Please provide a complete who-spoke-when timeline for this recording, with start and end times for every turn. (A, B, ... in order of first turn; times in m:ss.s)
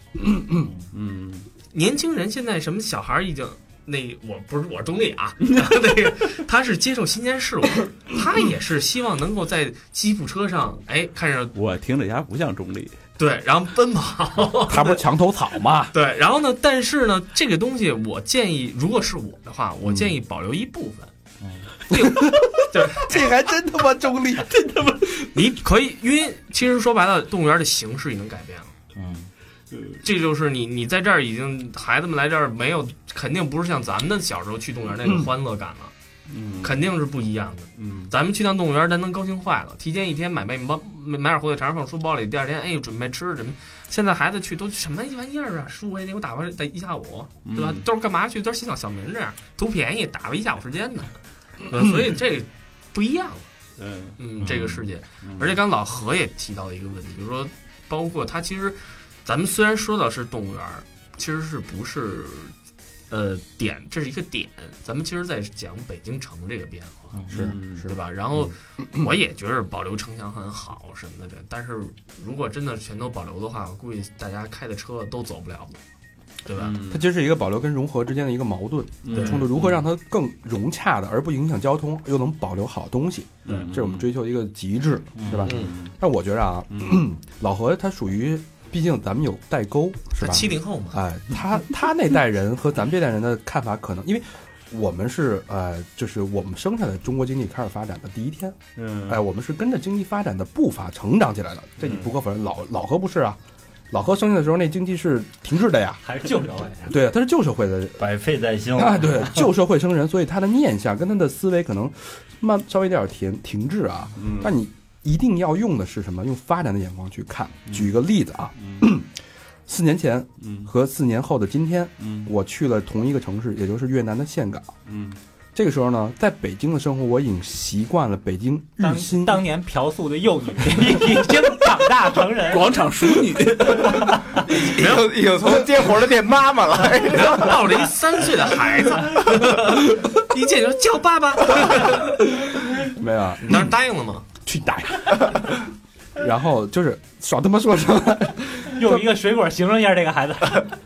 0:00.2-0:00.7 A
0:00.9-0:01.5 B
0:01.7-0:11.5 C
0:05.5-0:05.8 B
0:11.6-0:12.9 B
0:13.2-0:15.0 C
0:14.7-0:15.9 A
0:15.9-0:21.1 C
0:19.8-0:20.1 A
0:21.9-0:23.3 C
0:21.9-0:24.6 A
0:24.7-0:25.1 B
0:25.3-0:28.7 C
0:29.0-0:29.3 D
0:29.7-0:30.0 B
0:30.0-0:35.9 C
0:36.3-0:36.8 B
0:36.6-0:53.5 C
0:37.8-0:38.1 B
0:47.5-0:47.8 B
0:53.8-0:54.2 B
0:54.2-1:02.5 C
0:54.4-0:54.8 D
0:55.2-0:55.6 B
1:03.1-1:15.8 C
1:07.3-1:07.6 A
1:07.3-1:07.9 B
1:16.4-1:16.8 C
1:16.6-1:17.0 B
1:16.9-1:43.4 A
1:19.0-1:19.8 B
1:19.1-1:19.5 C
1:23.5-1:24.1 B
1:25.2-1:25.6 D
1:25.5-1:25.9 B
1:26.7-1:27.0 B
1:30.2-1:31.0 C
1:38.8-1:39.2 B
1:41.8-1:42.1 B
1:43.9-1:46.0 A
1:46.0-1:47.0 E
1:46.9-1:48.0 A
1:48.0-1:49.5 D
1:48.8-1:59.1 A
1:54.2-1:54.5 B
1:58.6-1:58.9 B
1:59.7-2:04.7 A
2:00.4-2:00.7 B
2:02.0-2:02.3 B
2:04.9-2:05.2 B
2:05.6-2:09.5 A
2:08.8-2:12.7 E
2:12.4-2:14.4 B
2:13.9-2:14.2 E
2:14.4-2:17.8 F
2:14.5-2:15.5 C
2:16.8-2:22.4 C
2:22.9-2:23.7 A
2:23.4-2:24.3 C
2:24.4-2:25.6 A
2:26.2-2:29.1 A
2:28.6-2:30.7 E